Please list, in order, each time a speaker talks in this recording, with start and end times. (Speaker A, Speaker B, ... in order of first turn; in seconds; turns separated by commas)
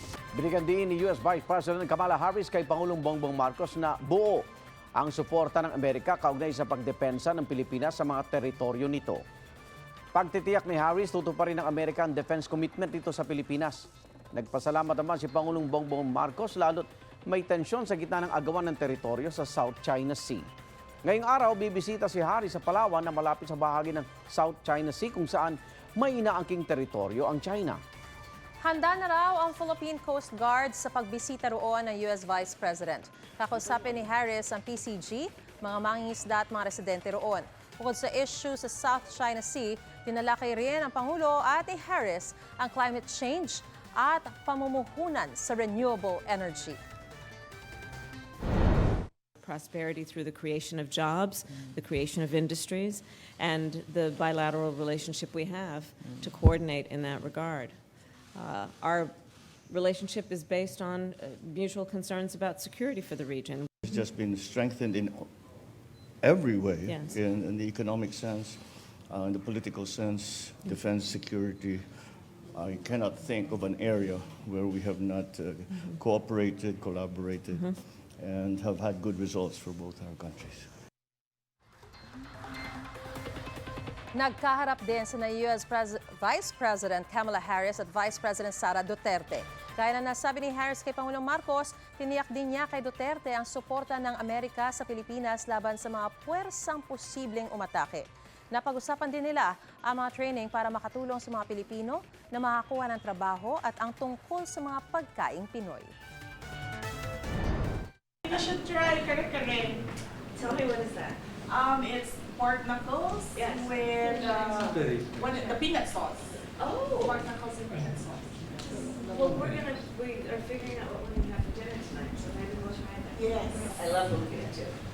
Speaker A: 0.3-9.2, Speaker A: 10.1-20.5, Speaker A: 21.0-27.8, Speaker B: 28.6-46.8, Speaker C: 49.4-57.8, Speaker C: 58.3-64.0, Speaker D: 63.8-65.5, Speaker D: 66.2-80.8, Speaker C: 66.8-67.2, Speaker C: 75.7-76.0, Speaker C: 77.5-77.8, Speaker B: 84.1-105.9, Speaker E: 108.3-109.7, Speaker E: 111.5-116.2, Speaker C: 113.4-114.5, Speaker C: 116.7-117.0, Speaker E: 117.0-118.3, Speaker C: 119.1-120.1, Speaker F: 119.1-119.6, Speaker F: 120.5-121.0, Speaker C: 121.3-121.5, Speaker F: 121.8-122.8, Speaker C: 123.0-123.8, Speaker E: 123.1-123.7, Speaker F: 123.8-124.7